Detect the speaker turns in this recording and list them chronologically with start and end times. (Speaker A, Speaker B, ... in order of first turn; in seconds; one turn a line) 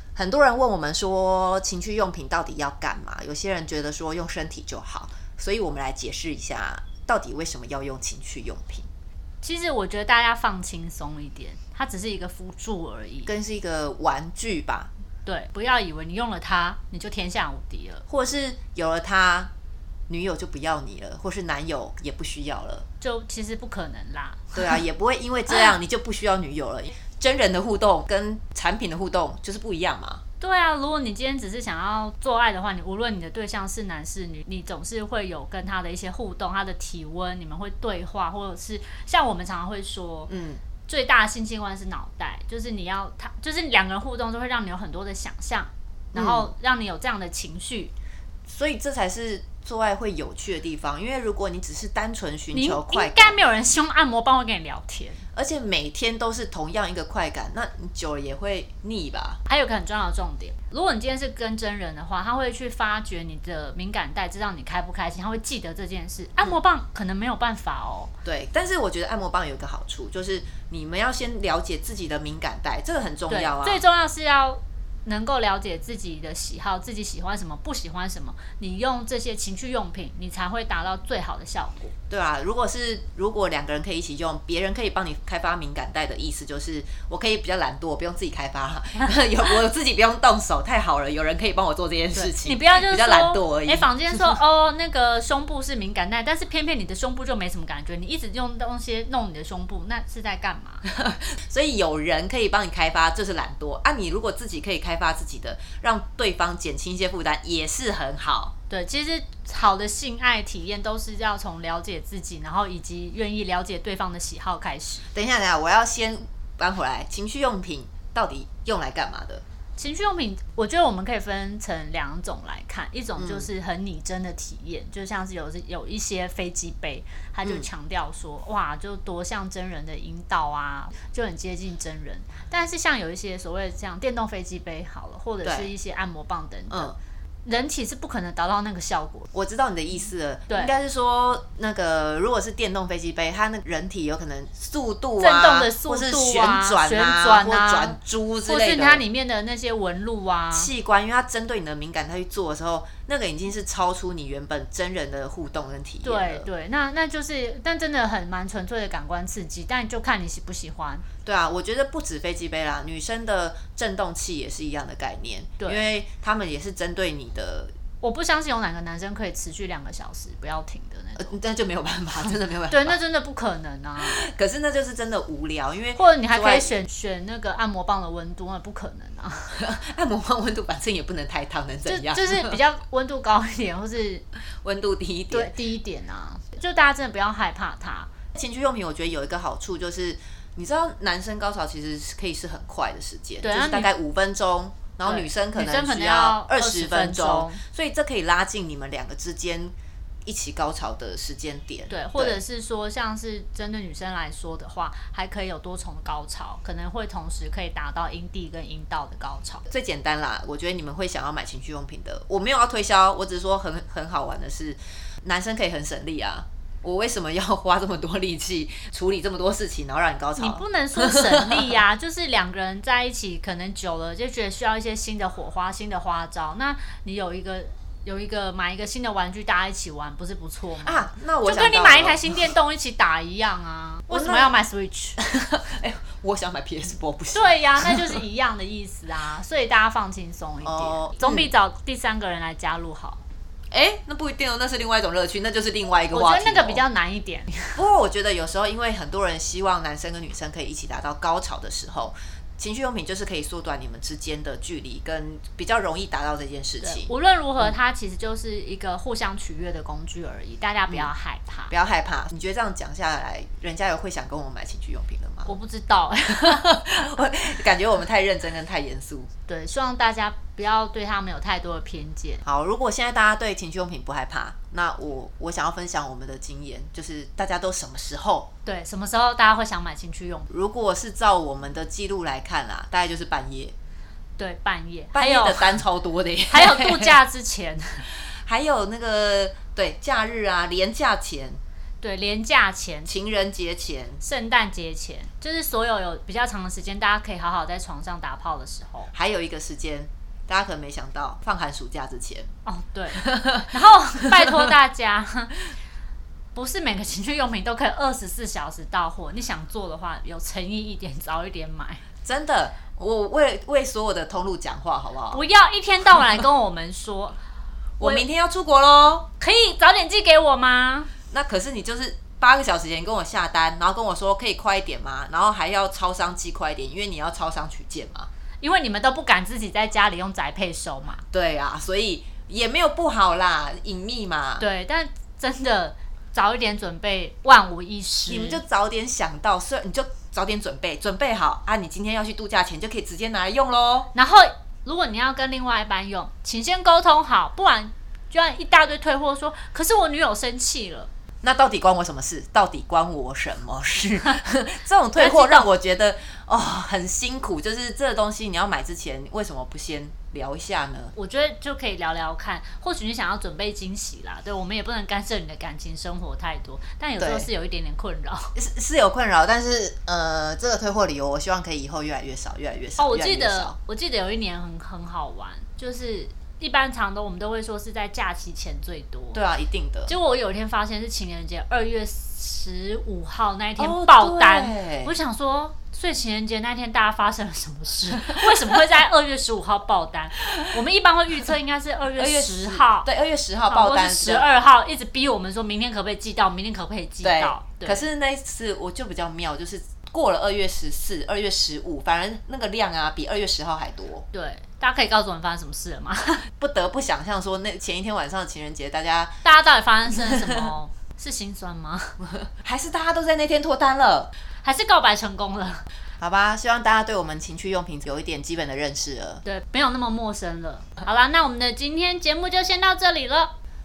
Speaker A: 0.2-8.9
Speaker B: 9.4-13.3
Speaker A: 13.3-14.9
Speaker B: 15.2-18.0
Speaker A: 18.1-19.5
Speaker A: 20.1-22.9
Speaker B: 23.0-24.8
Speaker A: 24.5-30.2
Speaker B: 30.4-40.3
Speaker A: 40.3-40.6
Speaker B: 40.9-47.9
Speaker A: 46.1-46.5
Speaker A: 48.5-53.4
Speaker B: 52.5-55.2
Speaker A: 55.3-59.4
Speaker B: 59.5-68.1
Speaker A: 68.2-73.8
Speaker B: 73.3-81.9
Speaker A: 82.1-94.4
Speaker B: 92.1-100.8
Speaker A: 100.8-108.5
Speaker B: 108.7-115.0
Speaker A: 115.1-119.4
Speaker B: 119.8-136.9
Speaker A: 123.2-123.5
Speaker A: 135.4-135.7
Speaker A: 136.7-137.0
Speaker B: 137.4-139.3
Speaker A: 139.3-149.1
Speaker B: 145.2-150.7
Speaker A: 150.5-156.5
Speaker B: 156.0-161.1
Speaker A: 161.2-167.7
Speaker B: 165.6-165.9
Speaker B: 168.0-171.4
Speaker A: 171.2-173.0
Speaker B: 172.7-174.2
Speaker A: 174.0-176.8
Speaker B: 176.0-179.5
Speaker A: 179.5-182.6
Speaker B: 181.9-184.3
Speaker A: 184.6-185.5
Speaker B: 185.3-188.1
Speaker A: 188.3-199.7
Speaker B: 193.4-193.9
Speaker B: 195.1-197.6
Speaker A: 200.2-202.4
Speaker B: 201.9-209.7
Speaker A: 209.7-221.8
Speaker B: 220.4-235.2
Speaker A: 230.8-232.3
Speaker A: 234.1-234.5
Speaker A: 235.2-238.2
Speaker B: 237.3-243.2
Speaker A: 240.6-241.5
Speaker A: 243.7-246.8
Speaker B: 246.1-247.8
Speaker A: 247.8-257.8
Speaker B: 256.8-261.7
Speaker A: 261.7-265.5
Speaker B: 265.5-266.6
Speaker A: 266.4-269.3
Speaker B: 269.5-272.4
Speaker A: 272.4-278.5
Speaker B: 278.6-280.5
Speaker A: 280.5-283.7
Speaker B: 284.4-285.8
Speaker A: 285.1-287.2
Speaker B: 286.5-288.1
Speaker A: 288.1-291.6
Speaker B: 292.0-293.1
Speaker A: 293.1-294.2
Speaker B: 294.2-299.1
Speaker A: 299.1-302.5
Speaker B: 302.7-305.6
Speaker A: 303.2-303.7
Speaker B: 306.6-312.0
Speaker A: 312.2-315.4
Speaker B: 315.3-317.4
Speaker A: 318.0-319.3
Speaker B: 319.4-321.1
Speaker A: 321.3-328.3
Speaker B: 328.6-331.2
Speaker A: 331.3-334.7
Speaker B: 334.6-338.6
Speaker A: 338.3-344.1
Speaker B: 344.1-351.1
Speaker A: 351.4-361.1
Speaker B: 355.2-355.7
Speaker B: 361.1-368.5
Speaker A: 367.2-367.5
Speaker A: 368.6-373.8
Speaker B: 373.0-379.4
Speaker A: 379.3-380.1
Speaker B: 380.1-393.1
Speaker A: 383.8-385.1
Speaker A: 392.2-394.5
Speaker B: 393.7-398.0
Speaker A: 397.2-404.2
Speaker B: 404.3-406.5
Speaker A: 406.6-409.4
Speaker B: 409.4-412.2
Speaker A: 410.1-410.7
Speaker A: 412.2-414.3
Speaker B: 414.6-415.9
Speaker A: 416.2-419.4
Speaker B: 419.4-423.5